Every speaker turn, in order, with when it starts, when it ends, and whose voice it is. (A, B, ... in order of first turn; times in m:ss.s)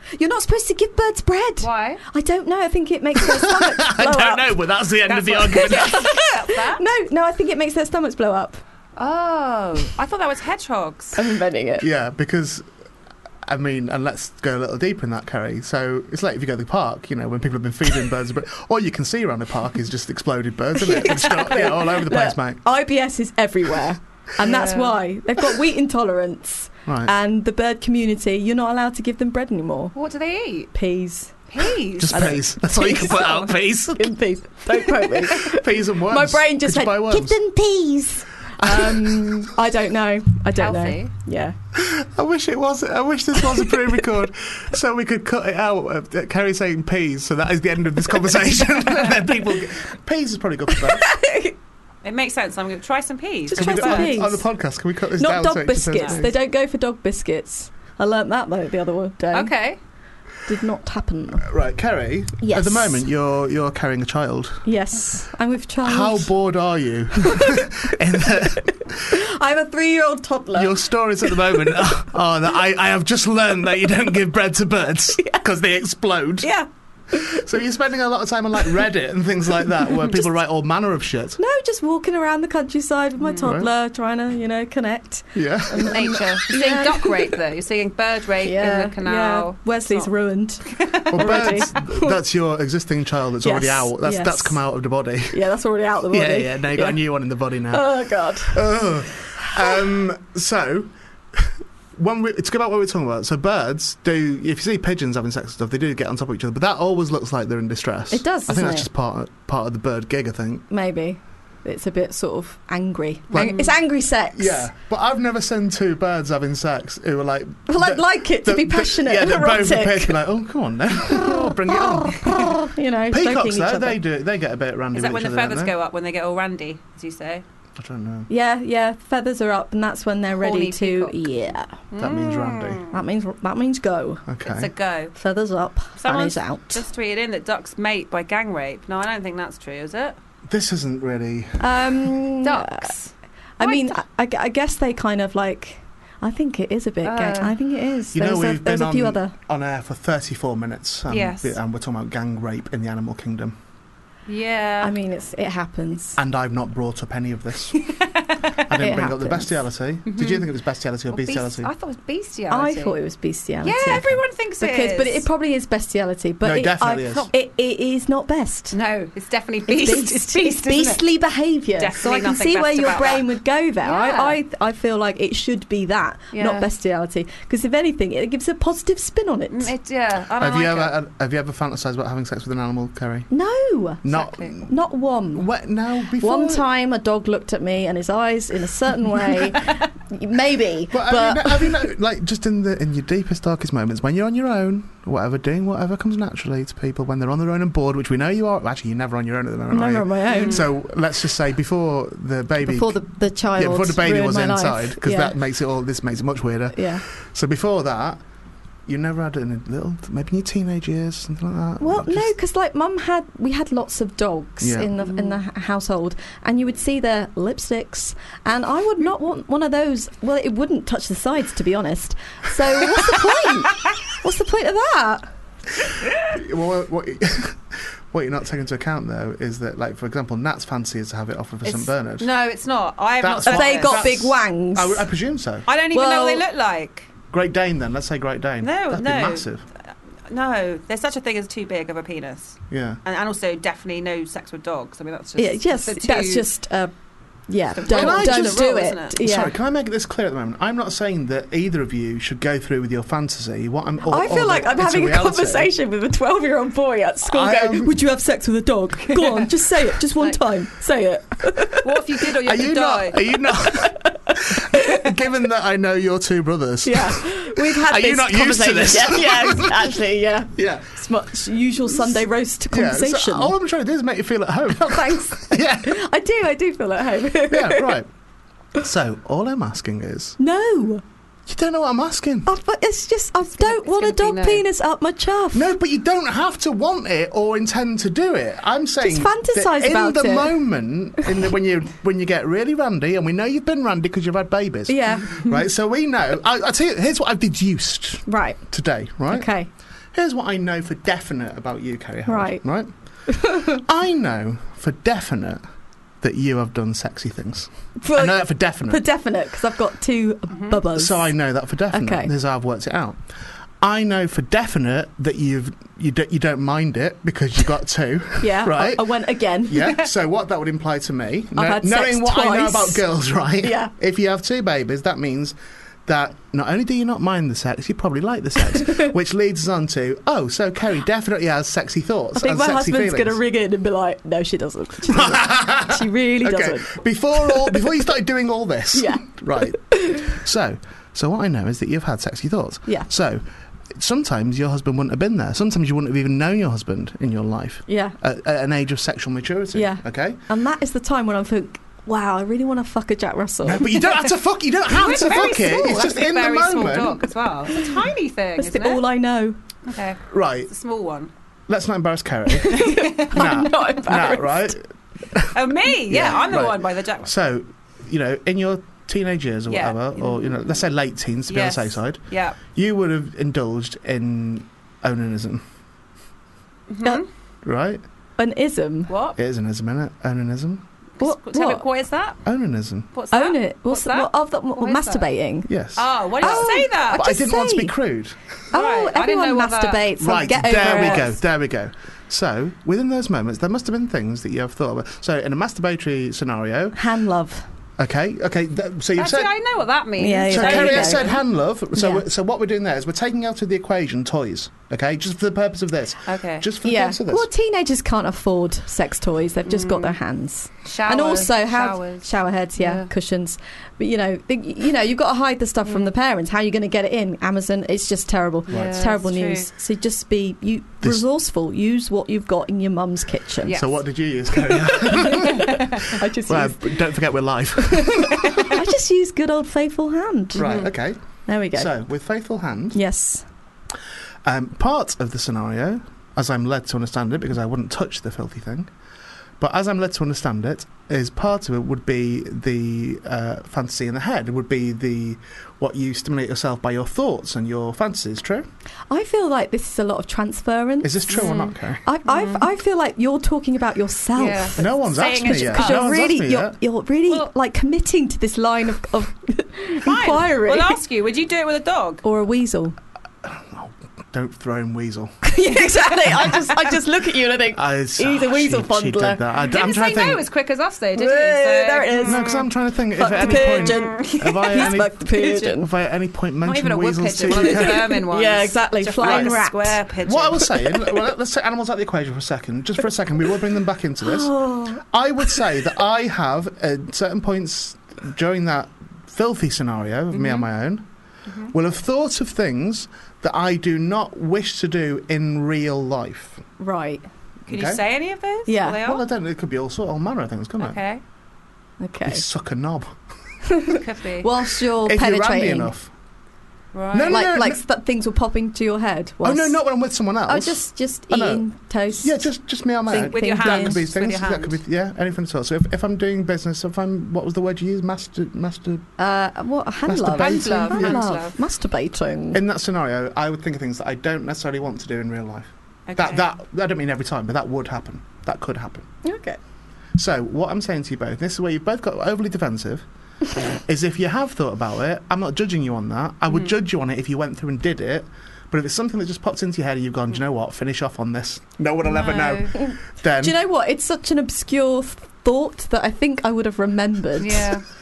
0:00.1-0:04.6 A
0:01.6-0:02.0 B
0:03.2-0:06.1 C
0:05.1-0:06.8 B
0:05.5-0:08.6 A
0:09.0-0:11.2 B
0:11.1-0:11.9 A
0:11.8-0:12.6 C
0:13.4-0:22.6 C
0:20.8-0:29.9 A
0:24.4-0:25.0 B
0:26.9-0:27.1 C
0:29.9-0:30.7 B
0:30.7-0:31.4 A
0:31.5-0:32.4 B
0:32.0-0:34.1 C
0:32.1-0:41.6 A
0:33.0-0:33.5 B
0:35.4-0:37.4 C
0:38.6-0:39.5 C
0:40.6-0:41.1 B
0:41.8-0:51.1 C
0:50.7-0:51.6 A
0:52.0-0:54.2 B
0:53.5-0:54.4 A
0:53.5-0:56.4 C
0:55.2-0:59.5 A
0:55.9-0:56.2 B
0:59.3-0:59.8 B
1:00.4-1:01.5 A
1:01.4-1:04.6 C
1:02.4-1:03.0 A
1:04.6-1:06.3 A
1:05.8-1:09.2 C
1:07.2-1:11.8 A
1:10.5-1:16.6 C
1:16.4-1:17.4 A
1:17.1-1:21.4 C
1:19.9-1:20.2 A
1:21.4-1:27.3 A
1:23.2-1:23.5 B
1:23.4-1:23.7 C
1:25.3-1:26.2 C
1:25.8-1:30.1 B
1:28.4-1:32.2 A
1:30.7-1:31.7 B
1:31.1-1:35.4 C
1:33.4-1:34.6 A
1:35.3-1:37.0 A
1:36.1-1:50.6 C
1:37.7-1:38.6 A
1:39.4-1:39.8 A
1:48.1-1:48.9 A
1:50.7-1:54.7 A
1:53.3-1:53.7 C
1:53.3-1:53.7 B
1:54.3-2:02.5 C
1:57.7-2:00.2 A
2:01.1-2:04.0 A
2:03.1-2:05.7 C
2:04.9-2:07.4 B
2:07.8-2:08.3 C
2:08.3-2:11.8 A
2:10.4-2:11.2 B
2:11.9-2:12.9 B
2:12.0-2:12.8 C
2:12.9-2:14.2 A
2:14.3-2:14.7 C
2:14.4-2:15.1 B
2:15.1-2:16.8 A
2:16.0-2:20.2 B
2:20.4-2:22.1 C
2:21.6-2:22.9 A
2:22.4-2:24.0 B
2:23.6-2:29.3 A
2:27.0-2:27.5 B
2:28.1-2:33.6 C
2:31.1-2:31.6 B
2:34.3-2:35.0 B
2:34.8-2:36.2 A
2:36.2-2:37.8 C
2:38.2-2:38.6 B
2:38.6-2:41.7 C
2:38.8-2:39.6 A
2:40.0-2:40.5 B
2:41.1-2:43.0 B
2:42.5-2:48.8 A
2:43.6-2:45.2 B
2:46.4-2:47.3 C
2:48.7-2:51.0 B
2:49.7-2:59.7 A
2:51.8-2:53.3 B
2:53.8-2:54.4 B
2:56.3-2:56.7 B
2:59.5-3:01.0 B
3:00.4-3:03.3 C
3:03.3-3:04.1 A
3:04.0-3:04.7 C
3:04.1-3:04.6 B
3:04.6-3:05.5 A
3:05.3-3:06.6 C
3:06.2-3:11.8 A
3:10.9-3:23.0 C
3:19.7-3:20.6 A
3:20.3-3:20.7 B
3:22.6-3:25.3 A
3:23.5-3:28.2 C
3:26.7-3:27.0 A
3:28.9-3:32.3 C
3:31.8-3:45.2 A
3:34.6-3:34.9 C
3:35.0-3:35.4 B
3:46.3-3:52.3 C
3:51.6-3:54.1 B
3:53.2-3:55.7 C
3:53.4-3:55.1 A
3:55.6-3:57.1 B
3:55.9-3:56.4 A
3:57.3-3:59.6 C
3:58.6-3:59.4 B
4:00.3-4:06.5 B
4:02.7-4:03.0 C
4:05.4-4:06.9 A
4:07.5-4:09.5 A
4:07.8-4:09.2 B
4:07.9-4:15.7 C
4:14.0-4:22.0 A
4:17.2-4:17.9 C
4:21.8-4:23.2 B
4:22.4-4:30.0 C
4:23.6-4:25.1 A
4:26.8-4:33.5 A
4:30.6-4:31.0 C
4:31.9-4:36.0 C
4:34.7-4:38.0 A
4:37.5-4:38.1 C
4:38.8-4:40.4 C
4:40.4-4:41.0 A
4:41.5-4:42.5 C
4:42.4-4:45.7 A
4:43.6-4:44.6 B
4:45.5-4:59.5 C
4:49.0-4:50.5 A
4:54.9-4:55.6 A
4:58.3-4:58.6 A
4:59.3-4:59.7 A
5:00.1-5:02.9 C
5:02.3-5:02.6 A
5:03.3-5:03.8 A
5:03.4-5:05.6 C
5:06.2-5:09.0 C
5:08.0-5:11.3 A
5:10.5-5:10.8 B
5:10.9-5:13.2 C
5:11.9-5:12.3 A
5:13.8-5:25.5 C
5:18.4-5:20.0 A
5:21.5-5:23.0 A
5:23.6-5:23.9 A
5:26.0-5:33.4 C
5:32.4-5:37.8 A
5:35.1-5:43.4 C
5:38.9-5:40.3 A
5:43.9-5:50.4 C
5:47.9-5:48.2 A
5:49.7-5:54.1 A
5:53.6-5:57.3 C
5:54.9-5:59.0 B
5:55.1-5:56.0 A
5:57.7-5:58.1 A
5:58.6-5:59.6 A
5:59.9-6:01.3 B
6:00.3-6:00.7 C
6:01.7-6:15.6 C
6:02.6-6:04.7 A
6:02.7-6:03.5 B
6:05.5-6:07.3 B
6:09.7-6:10.6 B
6:11.5-6:12.6 B
6:16.9-6:17.3 B
6:17.6-6:18.0 C
6:18.4-6:19.1 A
6:19.1-6:19.4 B
6:19.4-6:20.8 C
6:21.2-6:22.4 B
6:21.2-6:21.8 A
6:22.4-6:23.1 C
6:23.1-6:25.3 B
6:23.3-6:25.7 A
6:25.6-6:28.4 C
6:26.0-6:27.3 B
6:26.4-6:28.0 A
6:28.7-6:31.4 A
6:28.7-6:30.0 B
6:30.2-6:37.0 C
6:30.7-6:31.2 B
6:36.9-6:37.7 A
6:38.0-6:39.5 C
6:39.2-6:41.4 B
6:40.2-6:41.4 A
6:40.5-6:47.5 C
6:41.9-6:42.2 A
6:46.2-6:46.7 B
6:46.8-7:03.8 A
6:49.6-6:50.2 B
6:50.8-6:53.1 B
6:55.8-6:56.1 B
6:58.7-6:59.7 B
6:58.7-6:58.9 C
7:03.6-7:04.0 B
7:03.7-7:05.8 C
7:04.7-7:06.0 B
7:05.1-7:07.0 A
7:06.4-7:08.8 C
7:07.8-7:10.7 A
7:10.5-7:10.9 B
7:10.5-7:11.2 C
7:11.5-7:11.9 A
7:11.7-7:13.0 C
7:12.9-7:13.4 A
7:14.4-7:18.9 C
7:19.6-7:28.6 C
7:29.1-7:41.0 A
7:31.0-7:32.0 C
7:31.3-7:32.6 B
7:34.3-7:36.1 B
7:34.8-7:36.8 C
7:40.0-7:42.2 B
7:42.2-7:43.0 A
7:43.4-7:45.3 C
7:45.4-7:49.4 A
7:46.2-7:46.7 C
7:47.7-7:50.4 C
7:49.7-7:52.6 B
7:51.1-7:55.9 A
7:52.2-7:58.1 C
7:53.4-7:55.7 B
7:56.6-8:00.8 B
7:57.5-8:00.0 A
7:59.2-7:59.6 C
8:00.2-8:04.5 C
8:04.2-8:05.6 A
8:05.0-8:11.0 C
8:10.3-8:10.7 B
8:11.5-8:11.7 B
8:11.7-8:16.6 C
8:16.8-8:17.2 A
8:17.7-8:18.0 C
8:17.7-8:19.2 B
8:18.7-8:19.2 A
8:19.0-8:21.0 C
8:20.8-8:21.2 B
8:22.0-8:22.4 A
8:22.2-8:23.2 C
8:23.7-8:25.9 A
8:23.9-8:24.5 B
8:25.0-8:26.1 C
8:26.9-8:27.5 B
8:27.1-8:27.8 C
8:27.3-8:29.8 A
8:29.4-8:31.6 C
8:30.5-8:32.4 A
8:32.2-8:39.1 C
8:33.1-8:34.0 A
8:33.3-8:34.8 B
8:39.2-8:42.6 A
8:40.0-8:41.2 C
8:40.3-8:41.6 B
8:42.5-8:49.1 C
8:46.1-8:46.4 B
8:49.2-8:49.6 A
8:50.1-8:53.0 C
8:53.6-9:03.6 C
9:02.0-9:02.7 B
9:02.8-9:07.7 A
9:07.4-9:07.8 B